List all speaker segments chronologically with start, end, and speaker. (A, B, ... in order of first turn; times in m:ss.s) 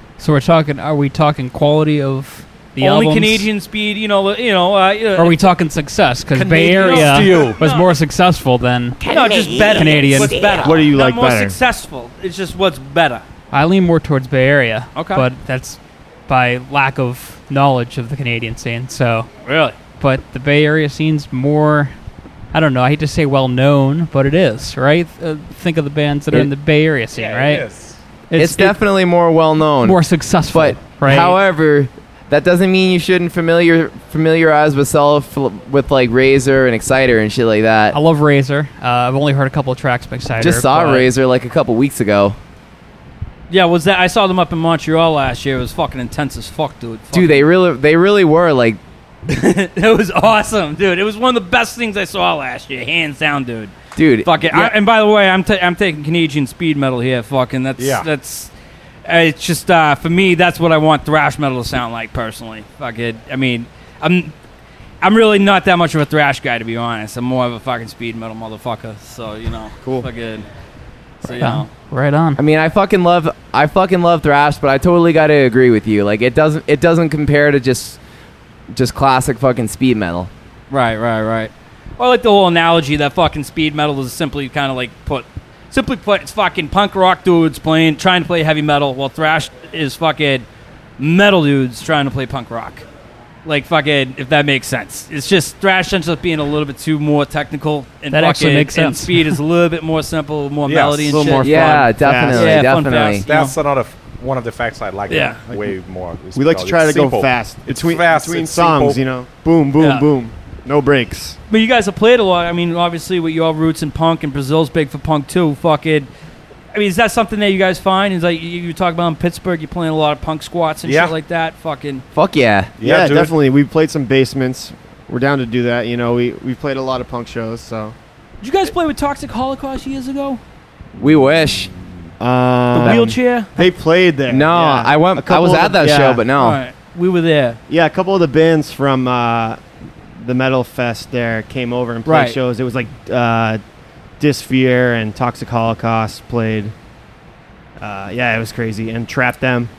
0:00.2-0:03.5 A
0:02.8-0:05.4 B
0:05.2-0:10.6 A
0:06.3-0:07.6 C
0:06.5-0:07.9 B
0:09.0-0:13.2 B
0:10.6-0:11.5 D
0:13.5-0:19.3 A
0:14.9-0:15.2 B
0:19.4-0:19.8 B
0:20.0-0:21.9 A
0:22.5-0:27.6 A
0:27.1-0:28.0 C
0:28.3-0:28.8 A
0:28.4-0:38.0 E
0:29.8-0:31.4 A
0:37.9-0:41.1 A
0:40.4-0:42.4 E
0:43.5-0:47.5 B
0:47.1-0:48.8 E
0:49.3-0:58.5 B
0:54.0-0:54.7 E
0:57.8-0:58.1 C
0:59.0-1:04.3 B
1:05.0-1:10.4 B
1:09.8-1:10.1 D
1:11.2-1:11.7 B
1:11.2-1:12.4 A
1:12.4-1:18.0 E
1:18.7-1:20.3 E
1:20.7-1:30.4 B
1:31.0-1:32.8 B
1:33.4-1:43.5 B
1:38.1-1:39.4 A
1:40.6-1:41.3 C
1:41.1-1:42.6 D
1:41.4-1:43.2 E
1:43.2-1:49.0 C
1:45.1-1:45.4 B
1:46.3-1:51.4 D
1:49.8-1:50.1 B
1:51.5-1:56.1 B
1:56.7-2:02.0 B
2:00.8-2:01.1 C
2:02.1-2:02.7 E
2:02.8-2:03.3 C
2:02.8-2:07.9 D
2:08.4-2:10.4 B
2:11.0-2:11.7 E
2:12.2-2:16.2 D
2:12.7-2:13.5 B
2:14.3-2:16.6 E
2:16.4-2:17.6 B
2:17.7-2:19.6 D
2:20.2-2:23.6 D
2:22.0-2:22.4 B
2:24.2-2:26.7 D
2:27.8-2:29.7 D